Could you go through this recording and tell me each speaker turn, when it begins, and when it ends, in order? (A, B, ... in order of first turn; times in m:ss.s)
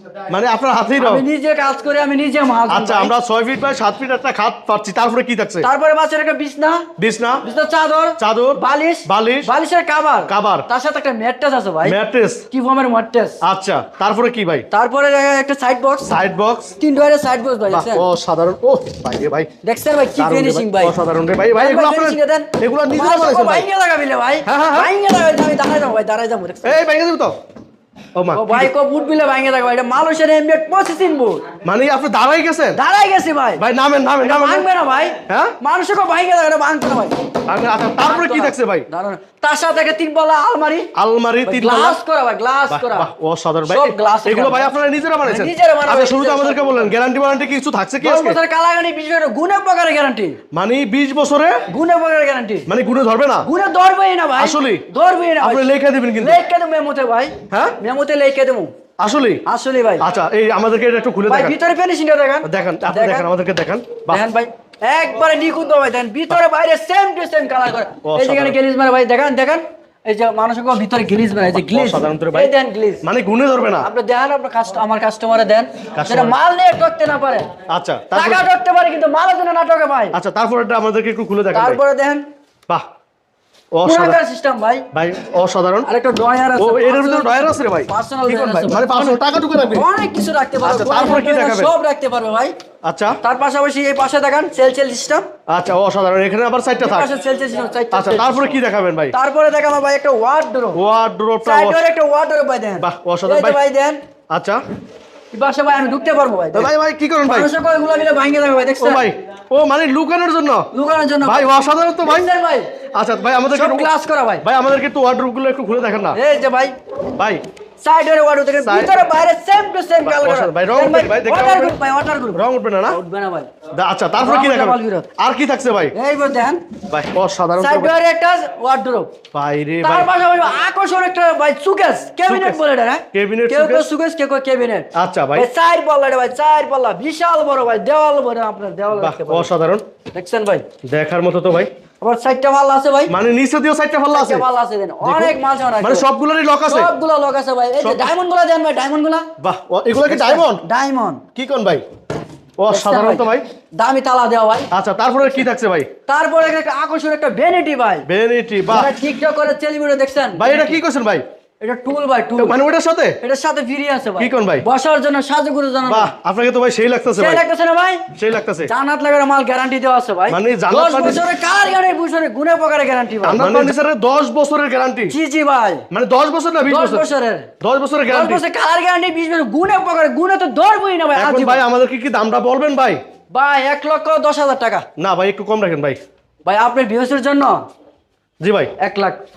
0:00.3-0:01.2 A
0:01.0-0:03.1 B
0:02.7-0:05.7 A
0:05.6-0:06.9 B
0:07.0-0:07.4 A
0:07.4-0:12.0 B
0:08.2-0:09.5 A
0:10.3-0:10.7 A
0:11.8-0:12.4 A
0:12.5-0:13.4 B
0:13.4-0:14.7 A
0:14.7-0:16.1 B
0:16.0-0:16.7 A
0:16.8-0:18.1 B
0:17.7-0:19.5 A
0:19.6-0:21.0 B
0:20.2-0:23.7 A
0:21.6-0:26.8 B
0:24.5-0:24.9 A
0:26.6-0:27.4 A
0:28.2-0:28.7 A
0:28.3-0:31.5 B
0:31.6-0:32.8 A
0:32.8-0:33.6 B
0:33.6-0:34.7 A
0:34.2-0:37.2 B
0:35.3-0:35.5 A
0:37.5-0:38.9 A
0:38.0-0:40.9 B
0:41.0-0:42.0 A
0:41.5-0:43.1 B
0:42.7-0:48.4 A
0:43.7-0:44.7 B
0:45.2-0:46.9 B
0:48.0-0:50.4 B
0:50.5-0:51.6 A
0:51.7-0:52.7 B
0:52.7-0:53.5 A
0:53.4-0:55.7 B
0:54.4-0:54.8 A
0:55.4-0:56.4 A
0:56.2-0:58.7 B
0:57.5-0:57.8 A
0:59.0-0:59.4 A
0:59.5-1:00.1 B
1:00.0-1:01.6 A
1:01.3-1:03.2 B
1:02.4-1:04.2 A
1:04.1-1:13.0 B
1:08.0-1:08.6 A
1:11.5-1:13.9 A
1:13.8-1:17.5 B
1:16.0-1:16.4 A
1:17.7-1:18.4 A
1:18.1-1:20.2 B
1:20.1-1:21.8 A
1:21.5-1:22.2 B
1:23.7-1:24.2 A
1:23.8-1:24.8 B
1:24.9-1:25.9 A
1:25.8-1:32.5 B
1:26.6-1:29.9 A
1:30.6-1:31.7 A
1:32.8-1:33.2 A
1:33.2-1:35.3 B
1:35.5-1:37.1 A
1:36.8-1:38.6 B
1:37.9-1:39.1 A
1:39.1-1:40.8 B
1:40.8-1:41.8 A
1:41.4-1:44.0 B
1:42.8-1:43.6 A
1:44.3-1:44.6 A
1:45.3-1:46.7 B
1:46.5-1:47.5 A
1:47.2-1:49.1 B
1:48.8-1:50.7 A
1:50.7-1:51.5 B
1:51.2-1:52.3 A
1:52.0-1:52.7 B
1:52.9-1:53.9 A
1:53.5-1:54.4 B
1:54.4-1:56.2 A
1:56.1-1:56.7 B
1:57.2-1:57.4 A
1:57.8-2:03.5 B
1:58.6-1:59.1 A
2:00.0-2:01.8 A
2:02.3-2:03.0 A
2:03.7-2:06.0 A
2:04.2-2:05.1 B
2:05.9-2:06.6 B
2:06.9-2:07.9 A
2:07.6-2:09.1 B
2:09.3-2:10.1 A
2:09.8-2:19.5 B
2:12.2-2:12.6 A
2:13.1-2:13.9 A
2:15.0-2:15.5 A
2:18.9-2:19.8 A
2:20.1-2:20.6 B
2:20.8-2:21.7 A
2:22.0-2:23.1 B
2:23.1-2:24.5 A
2:24.1-2:26.0 B
2:25.0-2:26.9 A
2:26.7-2:29.3 B
2:27.8-2:28.1 A
2:29.4-2:30.6 A
2:30.1-2:31.2 B
2:31.4-2:31.8 A
2:32.6-2:33.4 A
2:32.7-2:34.7 B
2:34.7-2:35.9 A
2:36.1-2:38.1 B
2:38.1-2:38.9 A
2:38.7-2:40.8 B
2:40.4-2:41.2 A
2:41.6-2:42.6 B
2:42.4-2:43.2 A
2:43.2-2:46.1 B
2:44.2-2:44.7 A
2:45.8-2:47.4 A
2:47.2-2:48.1 B
2:48.2-2:48.7 A
2:48.7-2:53.8 B
2:50.3-2:51.3 A
2:53.2-2:55.2 A
2:55.1-2:55.8 B
2:55.9-2:57.1 A
2:56.7-2:57.5 B
2:57.6-2:58.4 A
2:58.1-3:01.6 B
3:01.2-3:03.0 A
3:03.3-3:04.8 B
3:05.0-3:06.0 A
3:06.4-3:07.6 B
3:08.4-3:08.7 A
3:08.8-3:09.2 B